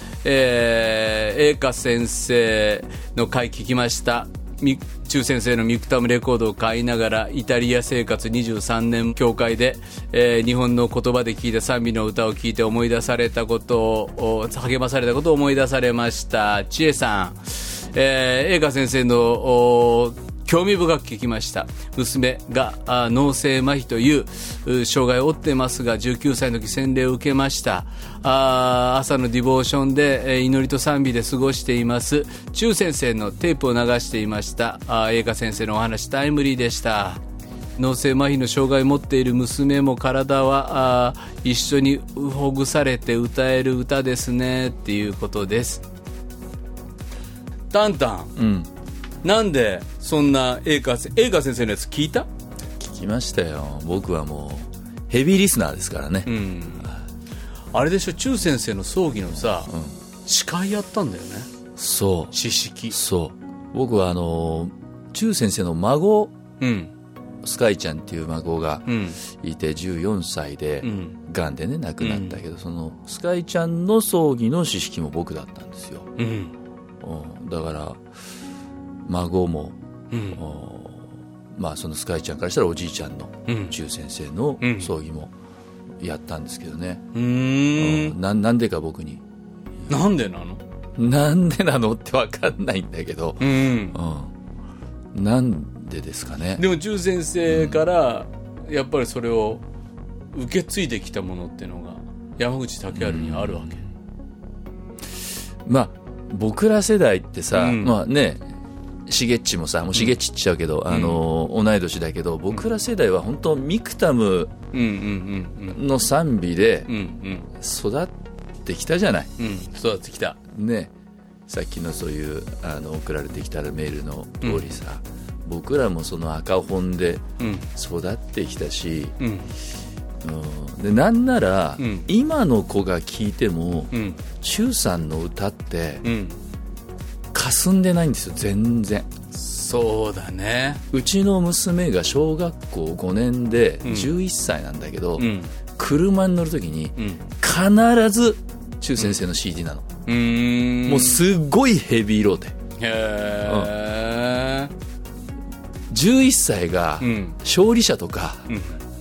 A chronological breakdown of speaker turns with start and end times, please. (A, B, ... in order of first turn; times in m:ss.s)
0:00.2-0:37.2 A
0:37.8-0:45.8 A
0:47.7-0:48.3 A
0:48.4-0:48.7 B
0:49.2-0:52.3 A
0:52.8-0:57.0 B
0:56.2-0:56.9 A
0:57.7-0:59.7 A
1:00.2-1:01.5 A
1:01.8-1:02.3 B
1:02.3-1:03.0 A
1:02.9-1:06.3 B
1:06.6-1:06.9 A
1:07.4-1:16.1 B
1:08.9-1:09.2 A
1:10.8-1:11.2 A
1:12.0-1:12.4 A
1:16.2-1:16.5 A
1:17.0-1:18.0 B
1:19.0-1:19.8 B
1:20.1-1:20.4 A
1:20.3-1:25.3 B
1:23.5-1:23.8 A
1:24.6-1:24.9 A
1:26.0-1:27.1 B
1:27.1-1:28.2 A
1:27.8-1:29.2 B
1:29.9-1:30.6 A
1:31.0-1:34.3 B
1:33.4-1:34.0 A
1:35.1-1:36.6 B
1:36.6-1:39.6 A
1:37.5-1:37.8 B
1:40.3-1:43.8 A
1:43.0-1:43.8 B
1:45.6-1:48.4 B
1:47.5-1:48.0 A
1:49.1-1:54.5 B
1:50.9-1:51.2 A
1:54.7-1:55.8 A
1:55.7-1:56.9 B
1:56.9-1:57.5 A
1:57.6-1:59.3 B
1:59.4-2:00.4 A
2:00.5-2:00.9 B
2:01.5-2:07.2 B
2:07.4-2:07.7 A
2:07.8-2:09.1 B
2:09.2-2:09.5 A
2:10.2-2:16.0 B
2:11.8-2:12.1 A
2:13.9-2:14.2 A
2:16.0-2:16.4 A
2:17.3-2:19.1 B
2:19.3-2:20.8 A
2:20.9-2:29.9 B
2:23.8-2:24.1 A
2:25.2-2:25.5 A
2:27.0-2:27.2 A
2:30.1-2:31.2 A
2:30.8-2:32.5 B
2:32.8-2:34.7 A
2:33.4-2:33.7 B
2:35.9-2:38.5 B
2:37.0-2:37.4 A
2:38.5-2:38.8 A